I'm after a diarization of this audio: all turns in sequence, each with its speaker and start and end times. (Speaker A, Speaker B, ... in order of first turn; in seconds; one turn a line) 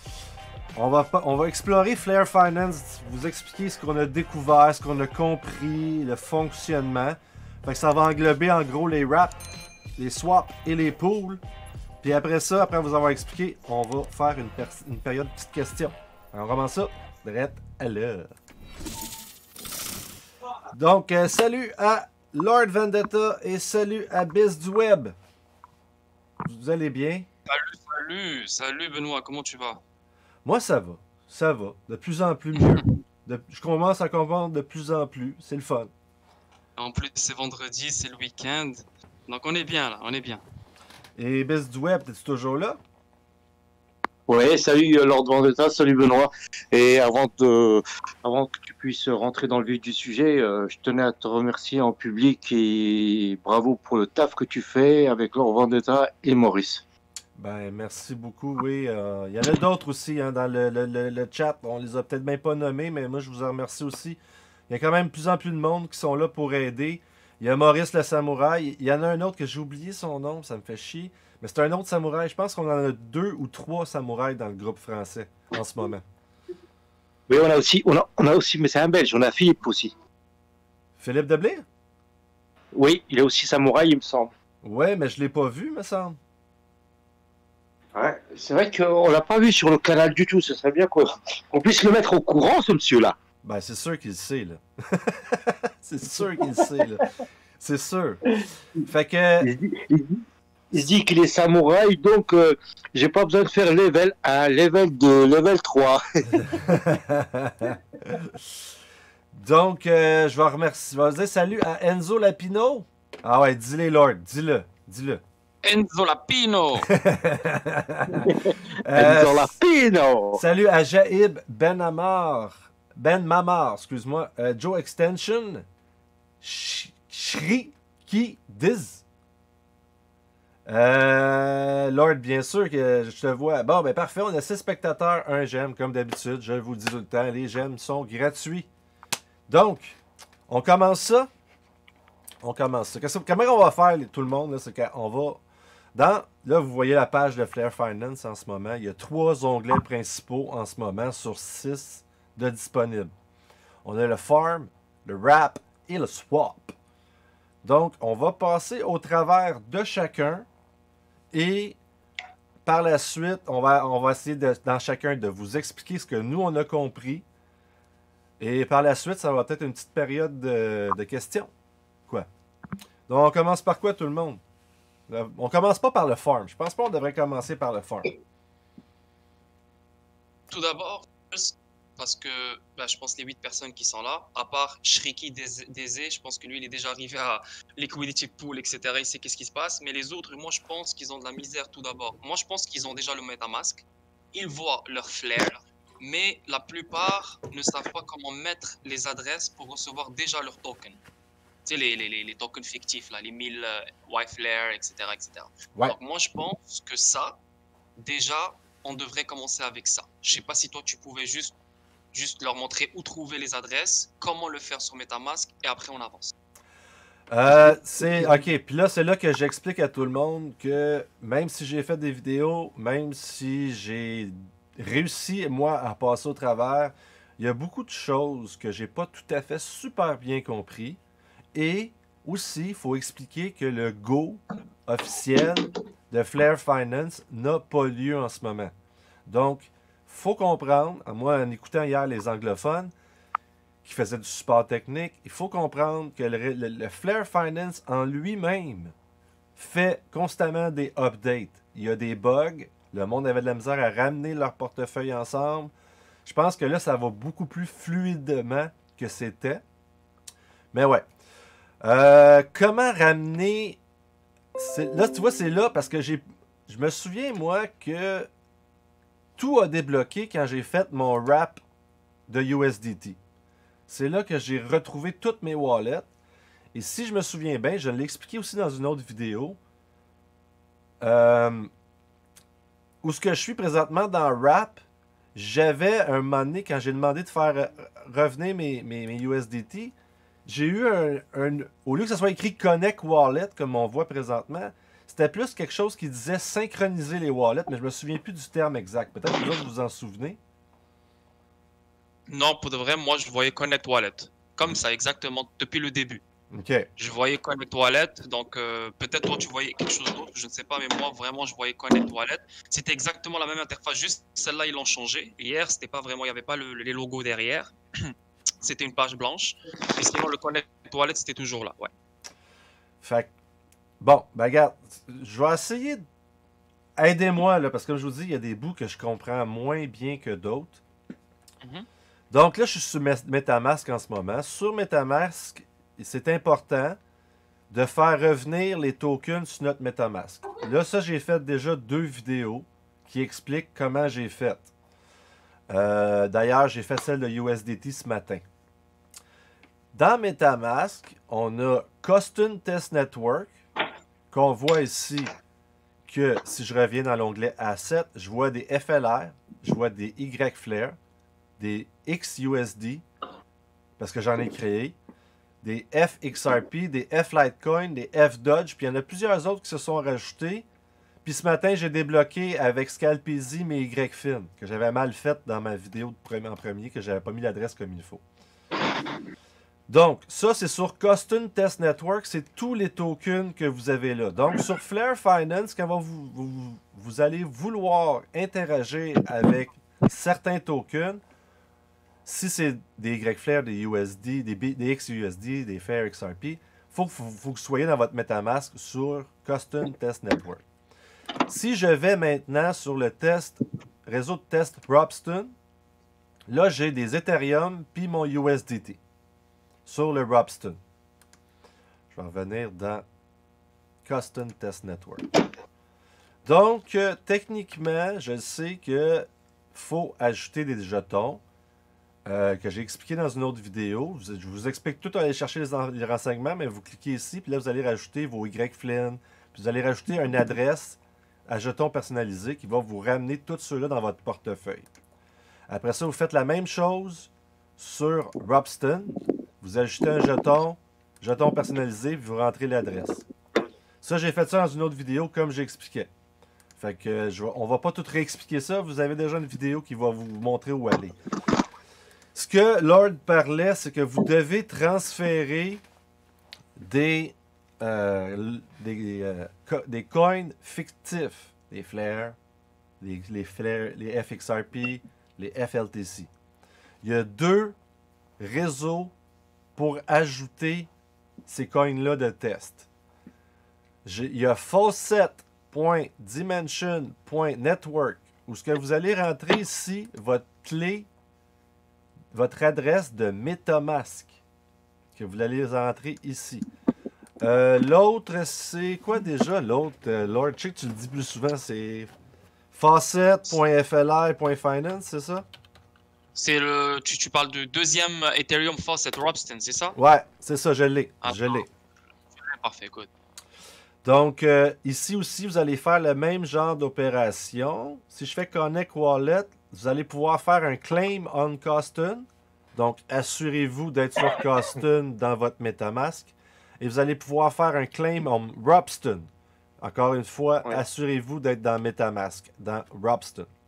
Speaker A: 0.7-9.4
Speaker A: 10.0-11.4
Speaker A: 12.0-18.3
Speaker A: 20.7-25.1
Speaker A: 26.4-27.3
Speaker B: 27.5-29.8
Speaker A: 30.4-35.9
Speaker B: 36.8-40.4
Speaker A: 41.1-42.8
Speaker C: 44.3-56.8
Speaker A: 57.4-64.2
Speaker A: 64.7-76.0
Speaker C: 77.3-79.9
Speaker A: 81.0-81.6
Speaker C: 82.7-84.3
Speaker A: 84.6-86.2
Speaker C: 87.9-93.2
Speaker A: 93.4-97.0
Speaker A: 97.6-98.2
Speaker A: 98.8-99.5
Speaker C: 99.4-106.7
Speaker A: 106.3-108.4
Speaker A: 109.3-115.2
Speaker B: 115.6-116.9
Speaker A: 116.8-118.3
Speaker C: 118.1-120.4
Speaker A: 118.8-119.5
Speaker A: 120.3-125.6
Speaker A: 126.4-129.0
Speaker A: 130.7-138.7
Speaker A: 139.5-141.3
Speaker A: 142.4-145.4
Speaker A: 145.9-153.1
Speaker A: 153.8-156.8
Speaker A: 157.6-160.4
Speaker A: 161.3-161.8
Speaker A: 162.6-167.2
Speaker A: 168.4-171.5
Speaker A: 173.1-174.4
Speaker A: 175.1-178.1
Speaker B: 180.5-201.0
Speaker B: 201.6-207.4
Speaker B: 208.0-211.6
Speaker B: 212.1-216.3
Speaker A: 217.3-231.0
Speaker A: 231.5-238.7
Speaker A: 239.3-242.9
Speaker A: 243.8-248.9
Speaker A: 249.6-255.7
Speaker A: 256.2-259.6
Speaker A: 260.7-261.0
Speaker A: 261.8-263.8
Speaker A: 264.6-268.3
Speaker A: 269.4-271.6
Speaker A: 272.3-273.2
Speaker A: 273.9-276.1
Speaker A: 276.7-279.6
Speaker A: 281.0-281.7
Speaker A: 283.0-284.8
Speaker A: 285.3-289.9
Speaker A: 290.4-300.4
Speaker B: 302.3-306.2
Speaker A: 306.5-306.9
Speaker B: 307.0-318.1
Speaker B: 318.6-321.9
Speaker A: 323.0-323.3
Speaker A: 324.0-326.0
Speaker A: 326.9-330.8
Speaker A: 332.3-337.0
Speaker A: 337.7-344.7
Speaker A: 345.7-348.4
Speaker A: 349.9-353.5
Speaker A: 354.3-355.3
Speaker A: 356.1-361.0
Speaker A: 361.6-363.0
Speaker A: 364.0-365.0
Speaker A: 365.6-370.6
Speaker A: 371.2-378.2
Speaker A: 379.9-391.2
Speaker A: 392.2-400.6
Speaker A: 401.5-405.5
Speaker A: 406.5-409.0
Speaker A: 409.9-410.8
Speaker A: 412.1-413.0
Speaker A: 414.0-415.3
Speaker A: 416.4-421.4
Speaker A: 422.2-434.9
Speaker A: 435.7-443.2
Speaker A: 444.0-446.1
Speaker A: 446.8-451.1
Speaker A: 452.3-455.8
Speaker A: 456.8-462.4
Speaker A: 463.0-466.3
Speaker A: 467.0-467.7
Speaker A: 468.4-469.1
Speaker A: 469.8-470.9
Speaker A: 471.5-472.9
Speaker A: 474.0-481.1
Speaker A: 482.3-484.3
Speaker A: 485.1-486.6
Speaker A: 487.4-492.1
Speaker A: 492.7-495.4
Speaker B: 496.3-499.9
Speaker A: 499.9-501.7
Speaker B: 501.2-501.6
Speaker B: 502.4-503.1
Speaker A: 504.0-519.3
Speaker A: 519.8-523.5